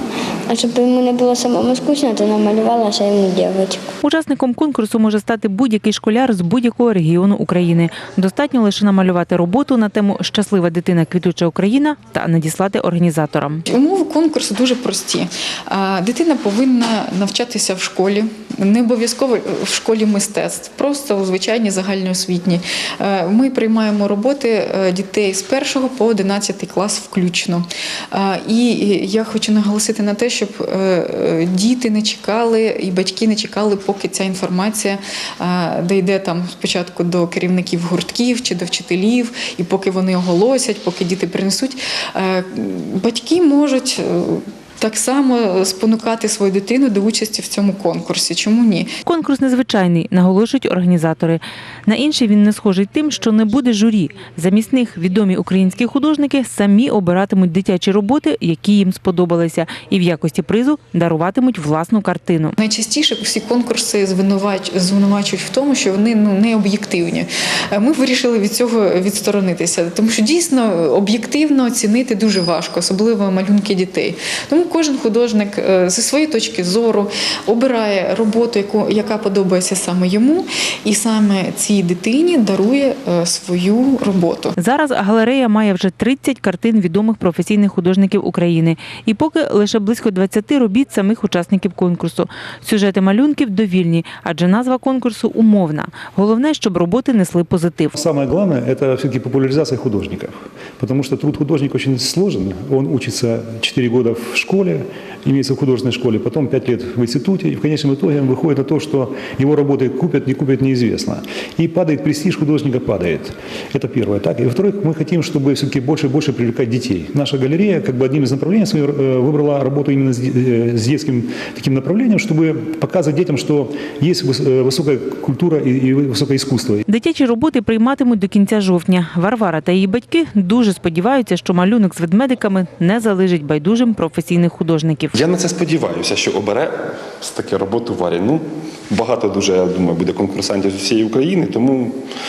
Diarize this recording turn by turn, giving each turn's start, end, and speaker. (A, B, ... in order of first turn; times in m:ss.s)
0:00.5-0:03.9 A
0:04.0-0:13.6 B
0:13.7-0:48.9 C
0:49.0-1:02.5 B
1:02.6-1:24.5 C
1:24.6-1:37.9 B
1:37.9-2:06.8 D
2:06.9-2:15.2 B
2:15.1-2:22.0 E